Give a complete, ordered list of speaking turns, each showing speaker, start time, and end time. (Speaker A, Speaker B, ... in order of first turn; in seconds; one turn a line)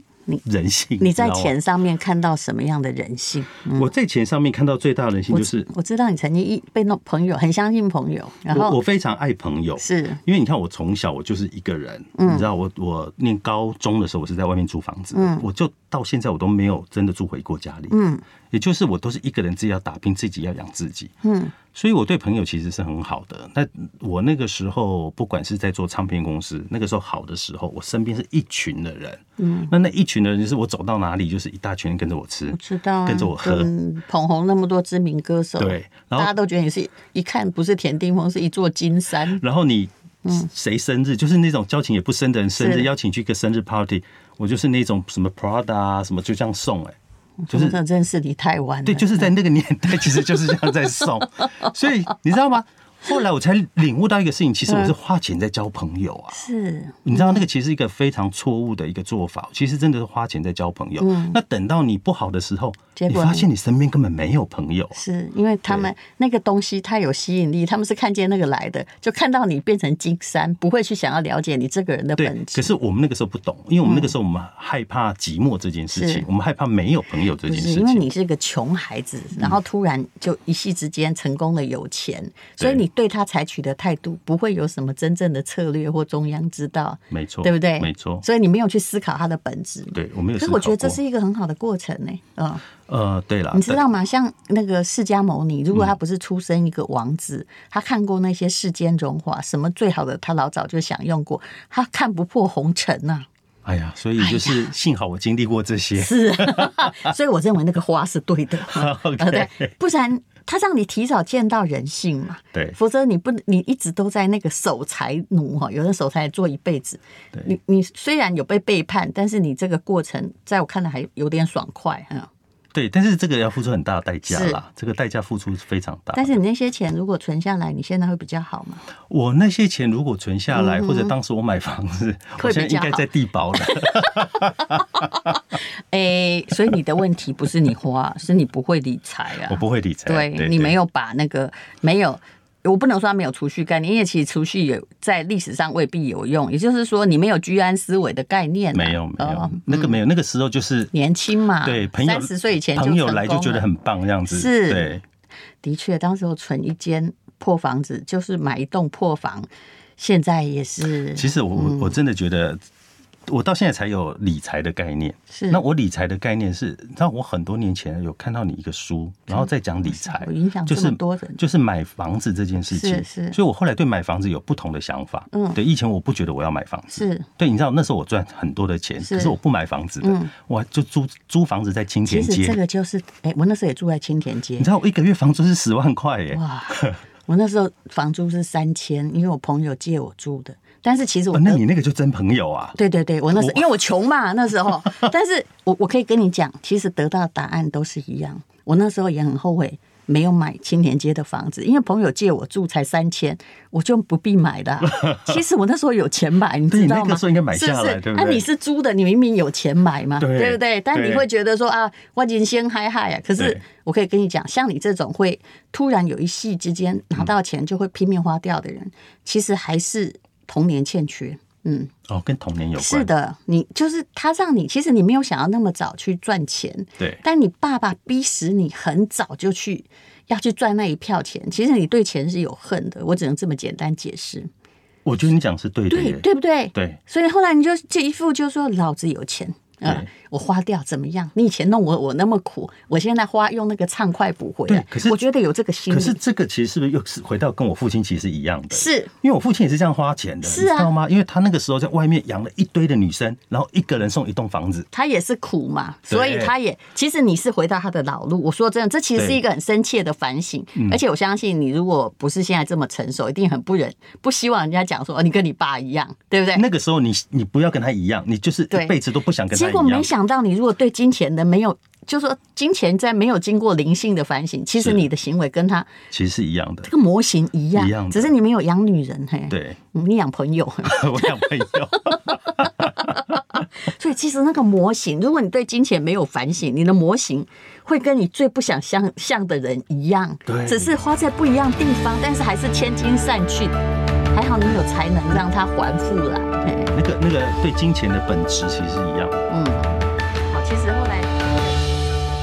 Speaker A: 0.4-1.5
Speaker B: 1.0-3.9
Speaker A: 3.7-5.7
Speaker B: 5.3-8.8
Speaker A: 8.5-18.0
Speaker B: 9.8-10.2
Speaker B: 12.2-12.5
Speaker B: 15.1-15.4
Speaker B: 17.9-18.2
Speaker A: 18.5-21.1
Speaker B: 21.2-21.5
Speaker A: 21.7-33.7
Speaker B: 29.4-29.7
Speaker B: 32.5-39.4
Speaker A: 35.6-36.3
Speaker A: 39.3-47.0
Speaker B: 42.6-42.9
Speaker B: 47.5-49.3
Speaker A: 47.5-47.8
Speaker A: 48.8-56.4
Speaker B: 54.7-54.9
Speaker B: 56.3-57.4
Speaker A: 57.0-65.0
Speaker B: 61.0-61.4
Speaker B: 63.0-63.5
Speaker B: 64.9-72.7
Speaker A: 72.2-78.1
Speaker B: 73.8-74.1
Speaker B: 75.9-76.2
Speaker B: 77.4-92.6
Speaker A: 87.1-88.2
Speaker A: 89.9-91.0
Speaker A: 92.9-93.8
Speaker B: 93.5-103.2
Speaker A: 103.6-107.1
Speaker B: 104.2-104.7
Speaker B: 106.0-122.3
Speaker A: 108.6-109.7
Speaker A: 122.7-126.4
Speaker B: 124.3-124.6
Speaker B: 126.1-128.8
Speaker A: 129.1-135.3
Speaker B: 130.5-131.1
Speaker B: 132.4-134.3
Speaker B: 135.0-135.3
Speaker B: 135.9-150.0
Speaker A: 139.4-140.8
Speaker A: 148.7-150.9
Speaker B: 150.9-153.7
Speaker A: 151.6-155.0
Speaker B: 154.3-155.0
Speaker B: 155.6-162.0
Speaker A: 161.1-162.6
Speaker A: 163.3-182.6
Speaker B: 165.3-165.6
Speaker B: 169.3-171.4
Speaker B: 172.7-173.4
Speaker B: 175.3-175.6
Speaker B: 176.9-177.3
Speaker B: 179.0-179.3
Speaker B: 180.0-180.3
Speaker B: 182.1-184.7
Speaker A: 184.6-187.0
Speaker B: 186.3-191.6
Speaker A: 191.3-192.8
Speaker B: 192.8-221.9
Speaker A: 193.3-193.7
Speaker A: 204.8-205.4
Speaker A: 206.7-208.5
Speaker A: 210.2-211.3
Speaker A: 222.1-223.1
Speaker B: 222.8-234.5
Speaker A: 235.0-237.0
Speaker B: 235.9-246.2
Speaker A: 244.7-245.2
Speaker A: 245.9-254.9
Speaker B: 248.7-249.1
Speaker B: 250.4-250.9
Speaker B: 254.9-266.6
Speaker A: 256.1-256.5
Speaker A: 259.1-259.4
Speaker A: 266.5-270.1
Speaker B: 269.5-275.9
Speaker A: 274.8-275.1
Speaker A: 276.1-276.9
Speaker B: 276.8-281.4
Speaker A: 277.7-278.3
Speaker A: 279.5-279.8
Speaker A: 280.8-283.4
Speaker B: 282.3-293.8
Speaker A: 290.5-290.9
Speaker B: 294.3-296.9
Speaker A: 296.9-299.5
Speaker B: 299.5-301.5